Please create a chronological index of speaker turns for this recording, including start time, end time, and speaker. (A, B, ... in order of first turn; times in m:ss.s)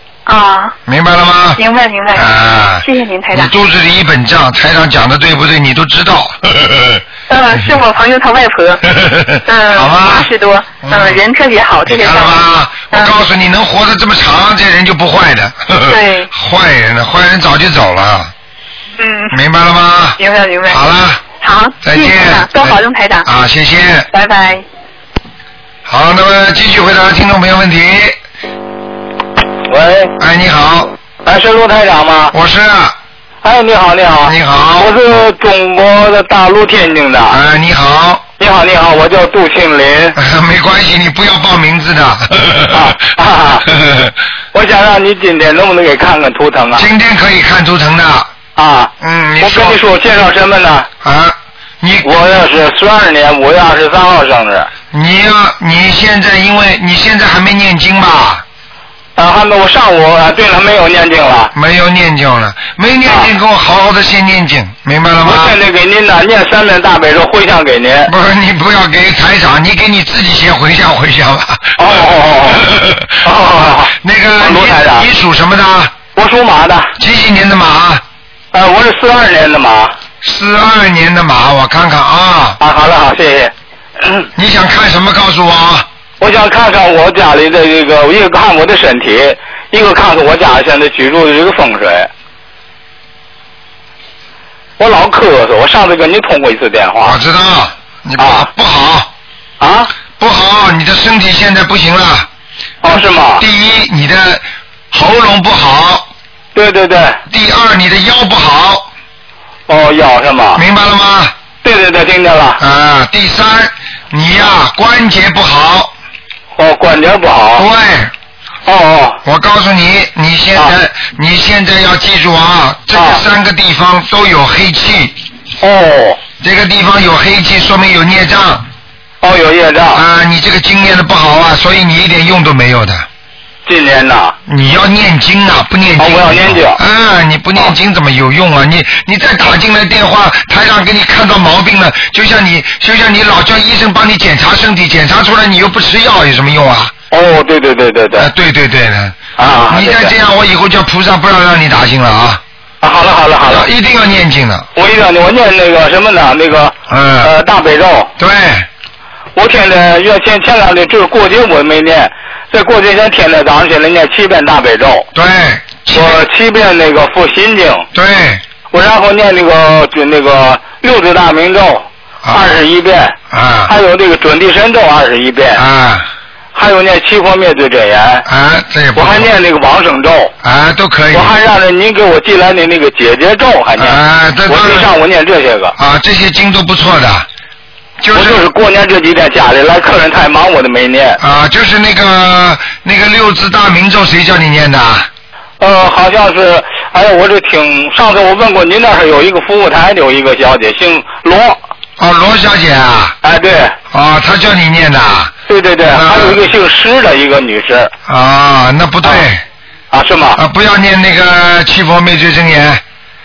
0:00.2-0:00.8 A
0:00.9-0:01.6 B
0:01.6-0:03.5 A
0:02.1-0:07.0 B
0:07.3-0:08.8 A
0:08.9-0:10.3 B
0:09.4-0:13.2 A
0:10.8-0:11.2 B
0:11.9-0:18.3 B
0:15.9-0:16.3 A
0:19.0-0:19.4 A
0:19.3-0:21.2 B
0:20.2-0:20.8 A
0:21.4-0:23.3 A
0:21.8-0:24.1 B
0:24.1-0:24.6 A
0:25.9-0:28.2 B
0:29.7-0:30.1 C
0:30.2-0:30.9 B
0:31.2-0:32.3 C
0:32.3-0:32.9 B
0:33.4-0:37.4 C
0:34.2-0:34.9 B
0:37.3-0:38.2 B
0:38.4-0:40.2 C
0:40.1-0:42.9 B
0:42.7-0:43.6 C
0:43.8-0:44.1 B
0:44.5-0:46.9 C
0:46.8-0:48.3 B
0:48.6-0:50.9 C
0:49.0-0:49.8 B
0:51.0-0:52.1 B
0:52.0-0:54.7 C
0:54.9-0:58.4 B
0:59.2-1:01.5 C
1:01.5-1:05.6 B
1:03.0-1:03.3 C
1:05.2-1:08.1 C
1:08.0-1:13.2 B
1:11.8-1:12.7 C
1:13.2-1:15.1 C
1:13.9-1:16.0 B
1:16.1-1:16.9 C
1:17.0-1:18.0 B
1:18.5-1:19.9 C
1:20.2-1:22.6 B
1:22.6-1:24.3 C
1:24.3-1:25.9 B
1:26.2-1:32.1 C
1:34.8-1:37.2 C
1:37.0-1:39.1 B
1:38.2-1:38.5 C
1:39.6-1:39.9 C
1:40.2-1:42.3 B
1:42.8-1:43.4 C
1:43.4-1:46.1 B
1:46.5-1:47.2 C
1:47.3-1:48.9 B
1:49.7-1:50.6 C
1:50.5-1:51.3 B
1:51.6-1:52.6 C
1:52.6-1:55.9 B
1:56.6-1:57.6 C
1:57.6-1:58.1 B
1:58.6-1:59.2 C
1:59.2-2:05.2 B
2:02.9-2:03.2 C
2:05.6-2:06.2 C
2:06.4-2:08.6 B
2:09.2-2:10.0 C
2:09.9-2:13.0 B
2:13.6-2:14.4 C
2:14.4-2:26.9 B
2:16.0-2:16.8 C
2:27.1-2:28.3 C
2:28.2-2:32.4 B
2:29.4-2:30.1 C
2:32.8-2:33.7 C
2:33.5-2:34.7 B
2:34.8-2:38.1 C
2:36.9-2:37.3 B
2:38.2-2:38.7 B
2:39.4-2:45.0 C
2:45.1-2:46.3 B
2:45.9-2:47.9 C
2:47.9-2:48.4 B
2:48.7-2:53.2 C
2:52.2-2:52.6 B
2:53.3-2:53.7 B
2:53.7-2:55.6 C
2:55.5-2:56.1 B
2:56.5-2:58.2 C
2:58.2-2:59.3 B
2:58.9-3:00.3 C
3:00.4-3:01.3 B
3:01.1-3:05.7 C
3:03.8-3:04.9 B
3:05.8-3:07.3 B
3:08.0-3:08.4 B
3:08.1-3:11.2 C
3:11.2-3:15.1 B
3:15.6-3:21.6 C
3:22.0-3:23.2 B
3:23.2-3:23.7 C
3:23.9-3:25.3 B
3:25.5-3:27.9 C
3:25.9-3:26.4 B
3:28.0-3:29.4 B
3:29.9-3:30.4 C
3:30.4-3:32.8 B